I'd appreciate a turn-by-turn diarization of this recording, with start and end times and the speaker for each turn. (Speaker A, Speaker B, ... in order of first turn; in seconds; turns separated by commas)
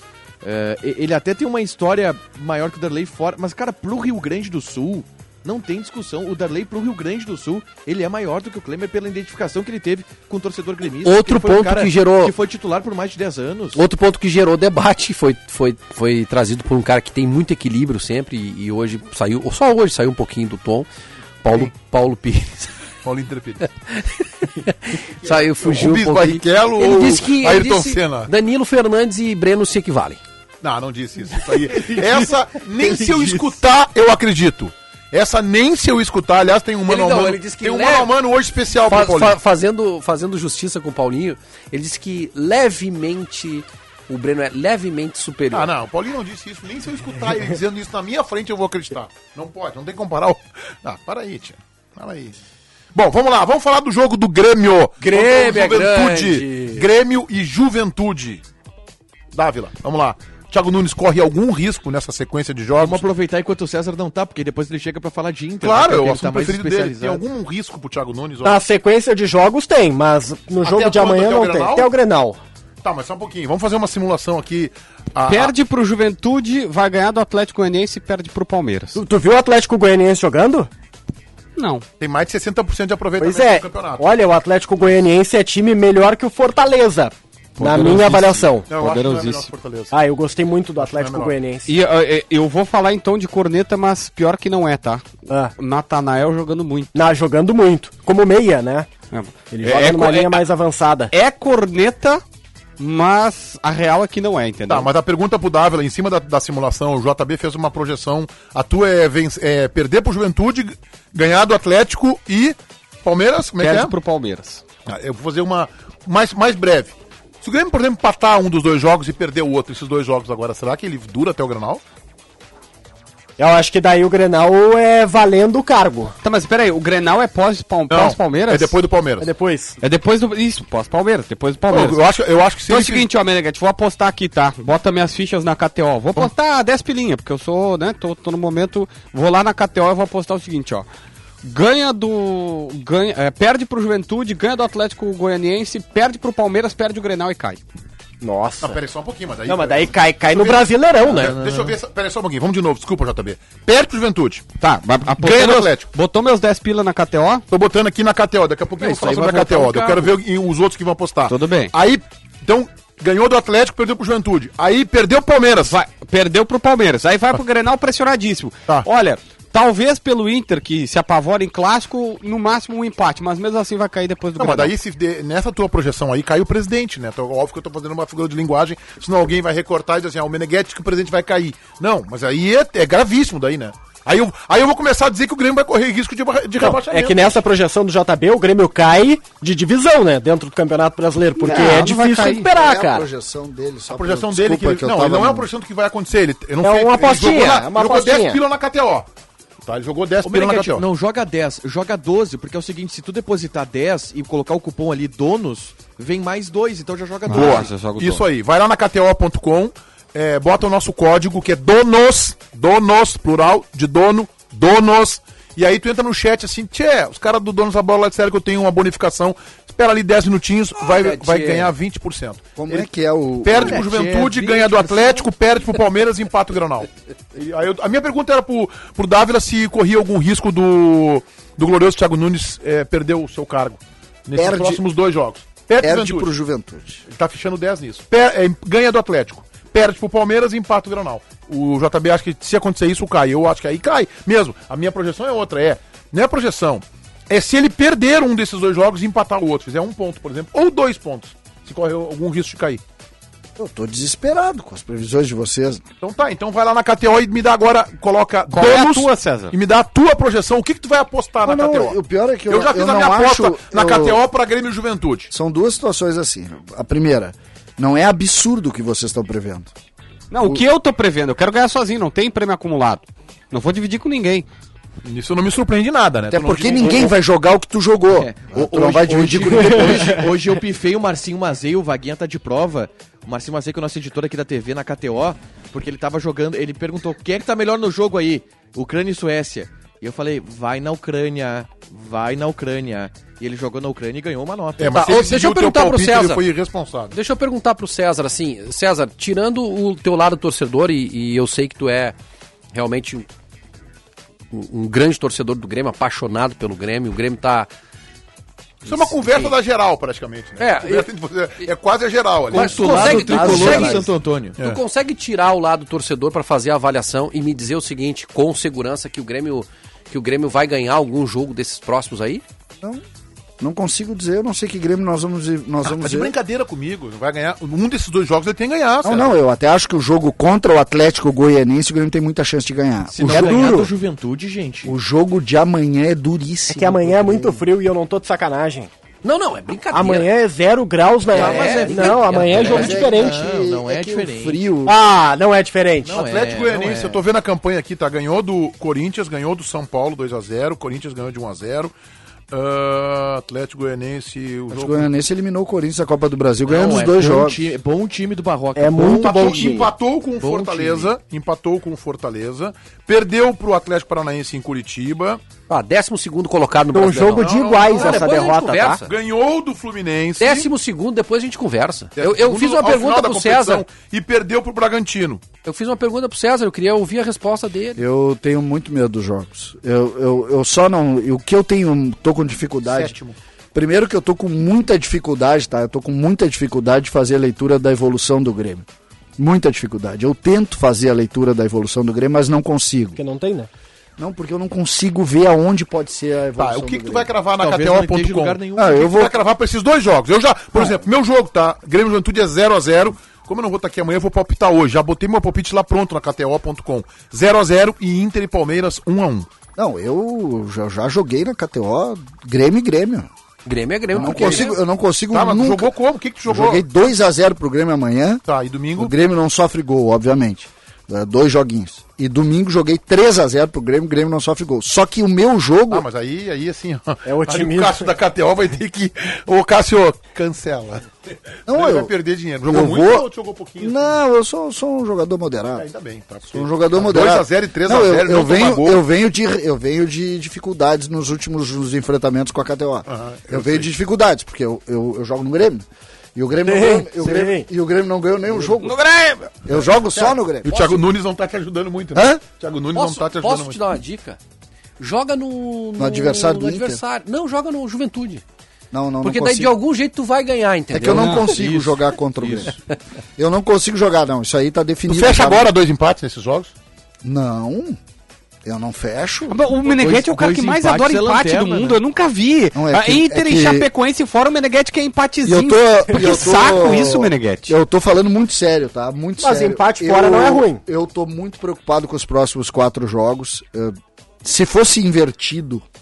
Speaker A: 0.4-13.8, Speaker B: 10.9-12.3, Speaker B: 13.8-20.9, Speaker B: 21.4-22.7, Speaker C: 23.0-23.6, Speaker B: 23.9-30.2, Speaker C: 25.2-28.3, Speaker C: 30.6-39.4, Speaker B: 32.8-33.4, Speaker B: 36.9-38.1, Speaker B: 38.9-45.7, Speaker C: 45.5-52.4, Speaker C: 52.9-58.4, Speaker B: 55.0-56.9, Speaker C: 59.3-63.1, Speaker A: 62.8-67.2, Speaker C: 65.6-68.6, Speaker D: 68.4-72.4, Speaker C: 70.6-71.9, Speaker C: 72.8-75.5, Speaker E: 75.3-79.0, Speaker D: 79.0-80.7, Speaker E: 81.6-81.8, Speaker C: 82.0-84.1, Speaker D: 83.2-88.7, Speaker E: 87.6-89.5, Speaker C: 87.7-88.1, Speaker C: 88.7-89.9, Speaker D: 89.9-91.7, Speaker C: 90.8-91.3, Speaker E: 91.7-96.9, Speaker D: 95.3-95.5, Speaker D: 96.9-98.9, Speaker E: 99.1-100.4, Speaker D: 99.5-101.1, Speaker E: 101.1-102.2, Speaker E: 102.8-104.9, Speaker C: 104.7-114.0, Speaker E: 113.6-114.6, Speaker C: 114.9-121.8, Speaker D: 123.4-126.1, Speaker E: 126.2-128.8, Speaker C: 127.9-129.3, Speaker D: 129.2-129.8, Speaker E: 129.8-132.0, Speaker C: 131.7-133.1, Speaker E: 132.7-140.9, Speaker E: 141.4-147.6, Speaker D: 148.2-148.8, Speaker C: 148.6-154.5, Speaker D: 149.5-151.4, Speaker A: 151.1-151.8, Speaker E: 154.6-157.4, Speaker C: 155.1-155.9, Speaker C: 157.5-165.8, Speaker A: 158.8-160.2, Speaker E: 161.3-161.7, Speaker E: 165.7-174.7, Speaker C: 174.4-187.4, Speaker D: 186.6-193.1, Speaker E: 191.4-192.5, Speaker F: 192.4-195.5, Speaker C: 193.9-199.1, Speaker D: 196.6-198.4, Speaker C: 199.7-200.9, Speaker A: 200.2-207.7, Speaker E: 207.3-208.2, Speaker C: 207.3-222.9, Speaker B: 220.8-221.7, Speaker A: 221.0-221.6, Speaker F: 222.6-223.8, Speaker C: 223.4-236.3, Speaker A: 223.5-225.3, Speaker F: 234.4-234.8, Speaker F: 235.8-237.1, Speaker C: 237.1-252.8, Speaker F: 253.6-255.8, Speaker C: 256.0-262.0, Speaker E: 258.5-259.6, Speaker F: 261.4-264.2, Speaker C: 262.5-265.3, Speaker F: 265.3-269.7, Speaker E: 270.3-274.5, Speaker C: 275.0-277.1, Speaker F: 276.3-280.3, Speaker A: 278.1-295.2, Speaker C: 294.8-297.2, Speaker B: 294.9-296.4, Speaker B: 297.1-302.2, Speaker B: 302.7-303.3, Speaker B: 304.5-307.7, Speaker B: 308.9-309.6, Speaker C: 308.9-312.9, Speaker B: 310.6-311.1, Speaker A: 312.5-314.6, Speaker B: 312.5-322.4, Speaker F: 312.8-314.1, Speaker F: 323.6-326.3, Speaker C: 325.9-329.3, Speaker F: 329.0-333.9, Speaker A: 333.1-334.9, Speaker D: 333.3-333.9, Speaker F: 334.9-337.6, Speaker D: 336.7-338.9, Speaker B: 339.2-340.3, Speaker D: 339.9-343.4, Speaker A: 341.3-344.6, Speaker B: 341.3-343.0, Speaker F: 341.4-344.9, Speaker D: 344.9-346.2, Speaker C: 346.1-351.9, Speaker A: 346.1-347.2, Speaker C: 352.5-355.1, Speaker F: 354.7-357.6, Speaker A: 356.7-359.8, Speaker D: 358.8-359.9, Speaker C: 359.0-365.4, Speaker A: 360.4-361.1, Speaker B: 365.7-369.1, Speaker D: 366.9-369.0, Speaker C: 367.3-368.4, Speaker C: 369.0-370.7, Speaker B: 370.4-373.9, Speaker C: 372.2-375.4, Speaker B: 375.6-378.0, Speaker F: 378.0-383.2, Speaker C: 382.9-383.4, Speaker F: 383.7-393.2, Speaker D: 393.2-393.7, Speaker F: 394.2-397.3, Speaker C: 396.6-409.5, Speaker A: 397.6-399.1, Speaker F: 398.8-399.3, Speaker F: 400.8-401.0, Speaker F: 409.8-413.3, Speaker B: 413.6-414.7, Speaker F: 414.1-415.9, Speaker C: 414.1-416.9, Speaker F: 416.5-418.4, Speaker C: 418.5-419.1, Speaker F: 419.0-426.1, Speaker C: 425.9-434.2, Speaker D: 427.2-428.1, Speaker F: 431.7-432.1, Speaker F: 432.6-433.3, Speaker F: 433.8-435.9, Speaker C: 435.8-439.0, Speaker F: 436.5-449.0, Speaker C: 443.1-443.9, Speaker D: 446.6-447.7, Speaker E: 448.8-449.6, Speaker F: 449.6-451.0, Speaker C: 449.7-453.8, Speaker B: 450.7-451.0, Speaker F: 452.1-452.4, Speaker B: 452.9-454.4, Speaker B: 455.0-458.4, Speaker F: 456.0-457.0, Speaker F: 458.9-459.8, Speaker B: 459.2-461.5, Speaker F: 460.9-462.8, Speaker A: 461.0-462.7, Speaker F: 463.4-465.7, Speaker C: 465.1-466.7, Speaker F: 467.2-468.0, Speaker F: 468.6-469.6, Speaker E: 469.5-477.8, Speaker A: 469.9-472.0, Speaker F: 472.8-473.9, Speaker F: 475.4-485.8, Speaker D: 479.4-480.8